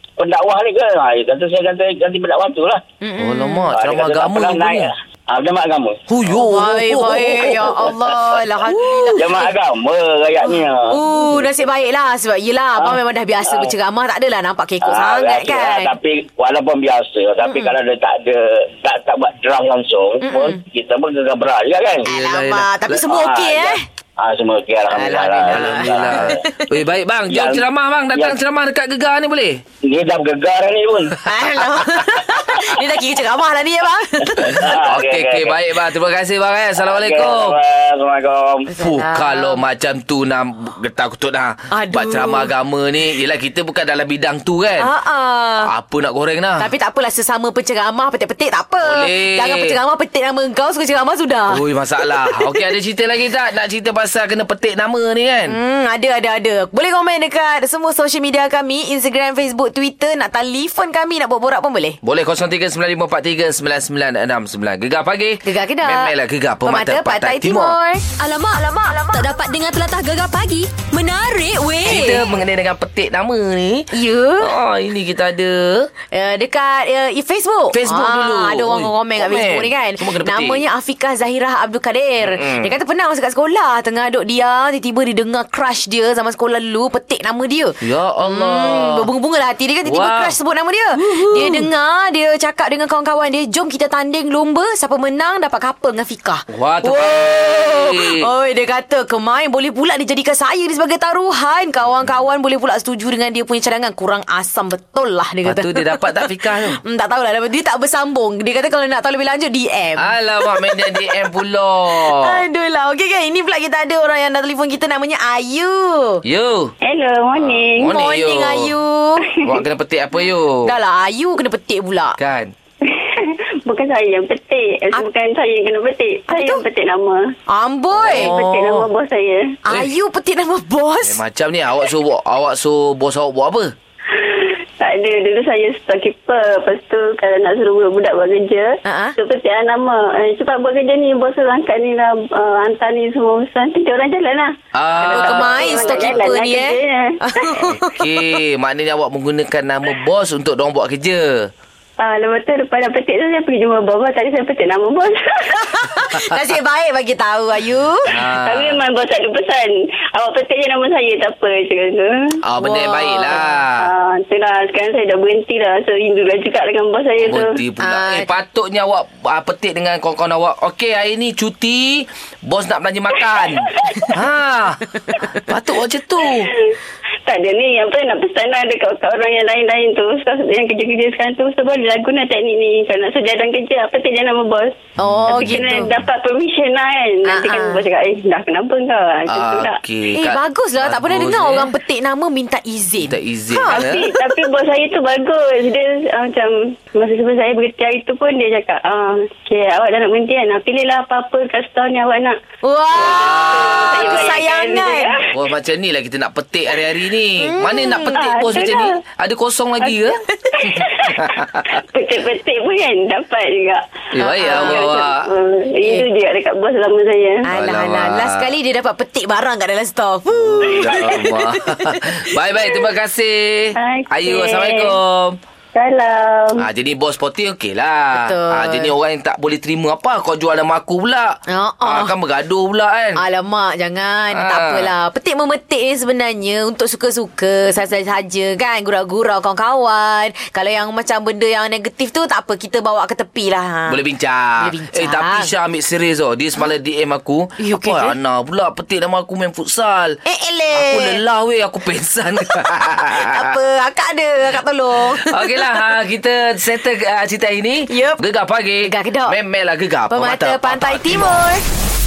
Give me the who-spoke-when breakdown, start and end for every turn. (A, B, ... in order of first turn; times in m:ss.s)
0:00.2-0:02.8 A
0:03.0-0:03.7 B
0:03.2-0:04.9 C
0:03.7-0:06.0 A
0:06.1-0:07.9 C
0:06.3-0:09.5 B
0:08.7-0:09.2 C
0:09.2-0:11.5 A
0:10.9-0:15.9 B
0:12.8-0:13.7 A
0:14.8-0:22.1 A
0:17.4-0:17.7 B
0:20.2-0:20.6 B
0:22.1-0:23.8 B
0:22.1-0:23.1 C
0:23.1-0:26.3 A
0:25.0-0:26.6 B
0:25.4-0:29.6 C
0:27.3-0:27.6 A
0:29.8-0:31.2 A
0:31.2-0:34.7 B
0:34.4-0:35.5 A
0:34.5-0:37.6 C
0:36.8-0:38.7 A
0:38.7-0:39.6 B
0:38.8-0:44.9 C
0:41.7-0:42.5 B
0:44.8-0:45.7 B
0:45.7-0:46.7 C
0:46.6-0:52.8 B
0:48.8-0:49.8 C
0:51.5-0:55.6 C
0:55.5-1:02.0 B
1:02.0-1:07.8 C
1:05.4-1:08.0 B
1:08.1-1:12.2 D
1:11.8-1:15.9 C
1:13.9-1:14.5 B
1:16.1-1:51.2 B
1:17.7-1:20.6 C
1:22.2-1:22.7 C
1:27.8-1:29.1 C
1:29.9-1:30.3 C
1:31.0-1:31.7 C
1:36.5-1:38.3 C
1:45.5-1:46.8 C
1:50.0-1:52.4 C
1:51.9-1:56.2 B
1:56.2-1:56.7 C
1:56.8-1:58.0 E
1:57.4-1:58.7 C
1:57.9-1:59.3 B
1:59.2-1:59.6 E
1:59.4-2:00.7 C
2:00.6-2:02.2 B
2:02.2-2:02.5 C
2:02.8-2:07.2 E
2:06.3-2:06.6 B
2:07.5-2:08.4 B
2:07.9-2:08.9 C
2:08.1-2:09.6 E
2:09.7-2:11.2 B
2:11.0-2:13.7 C
2:14.1-2:27.5 E
2:18.8-2:19.2 B
2:24.7-2:26.2 C
2:25.0-2:28.2 B
2:27.6-2:31.5 C
2:32.0-2:35.8 E
2:35.6-2:38.2 B
2:38.1-2:38.8 C
2:38.4-2:42.4 E
2:42.5-2:43.9 C
2:42.6-2:43.6 B
2:43.8-2:47.6 E
2:47.2-2:56.5 C
2:47.8-2:48.3 B
2:53.4-2:54.2 E
2:55.1-2:55.4 B
2:56.4-2:56.7 E
2:57.3-3:04.8 E
3:05.0-3:05.9 B
3:05.0-3:05.8 C
3:05.4-3:09.8 E
3:07.3-3:07.8 B
3:09.3-3:11.7 C
3:10.1-3:14.2 B
3:13.0-3:14.1 C
3:13.8-3:22.4 E
3:22.6-3:25.1 B
3:22.9-3:24.3 C
3:23.0-3:25.3 E
3:25.3-3:31.8 C
3:27.4-3:28.2 B
3:28.1-3:29.0 E
3:29.8-3:33.8 E
3:34.2-3:35.3 C
3:34.2-3:35.0 B
3:34.4-3:37.5 E
3:35.8-3:36.1 B
3:37.5-3:42.0 B
3:37.5-3:38.5 C
3:40.4-3:45.4 C
3:40.7-3:41.2 E
3:43.8-3:45.0 E
3:45.7-3:46.7 E
3:46.6-3:53.2 C
3:48.1-3:48.9 B
3:51.5-3:52.1 B
3:53.2-4:04.0 B
3:54.3-3:54.9 C
4:03.9-4:10.2 C
4:04.6-4:05.5 B
4:07.6-4:08.2 B
4:10.2-4:11.2 B
4:10.7-4:13.6 C
4:13.2-4:15.9 B
4:15.0-4:21.5 C
4:17.9-4:18.2 B
4:18.8-4:19.4 B
4:20.1-4:21.6 B